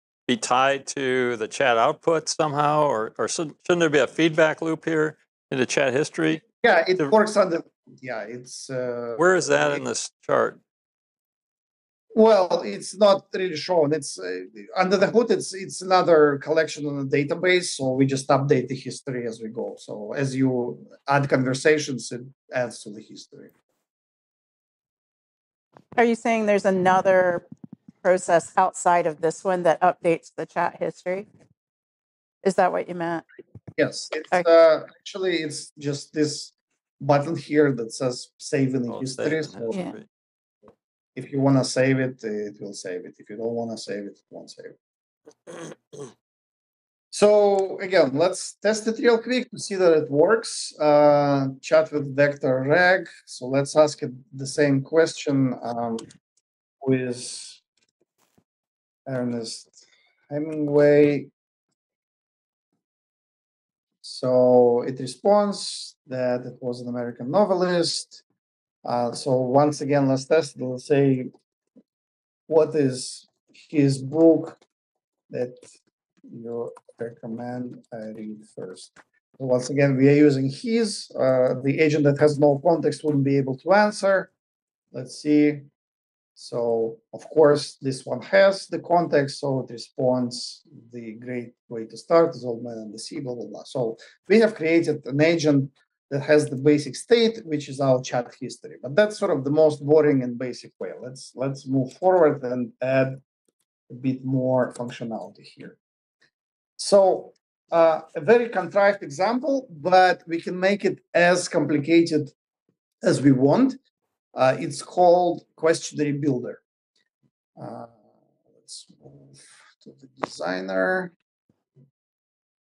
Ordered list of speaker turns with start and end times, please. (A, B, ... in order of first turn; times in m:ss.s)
0:00.3-0:07.2 A
0:06.6-0:09.8 B
0:09.2-0:10.6 A
0:12.1-0:23.5 B
0:26.0-0:27.4 C
0:28.0-0:31.3 C
0:32.4-0:33.2 C
0:33.8-0:39.8 B
0:38.9-0:40.1 A
0:41.2-0:44.7 B
0:47.1-0:56.0 B
0:56.8-0:57.6 B
0:59.0-1:01.3 B
1:04.0-1:08.2 B
1:08.8-1:11.3 B
1:12.5-1:14.6 B
1:15.3-1:15.7 B
1:16.3-1:24.3 B
1:24.9-1:25.7 B
1:26.4-1:43.2 B
1:43.9-1:45.8 B
1:46.8-1:52.3 B
1:53.0-1:53.8 B
1:54.3-1:56.6 B
1:57.6-1:57.9 B
1:58.6-2:01.1 B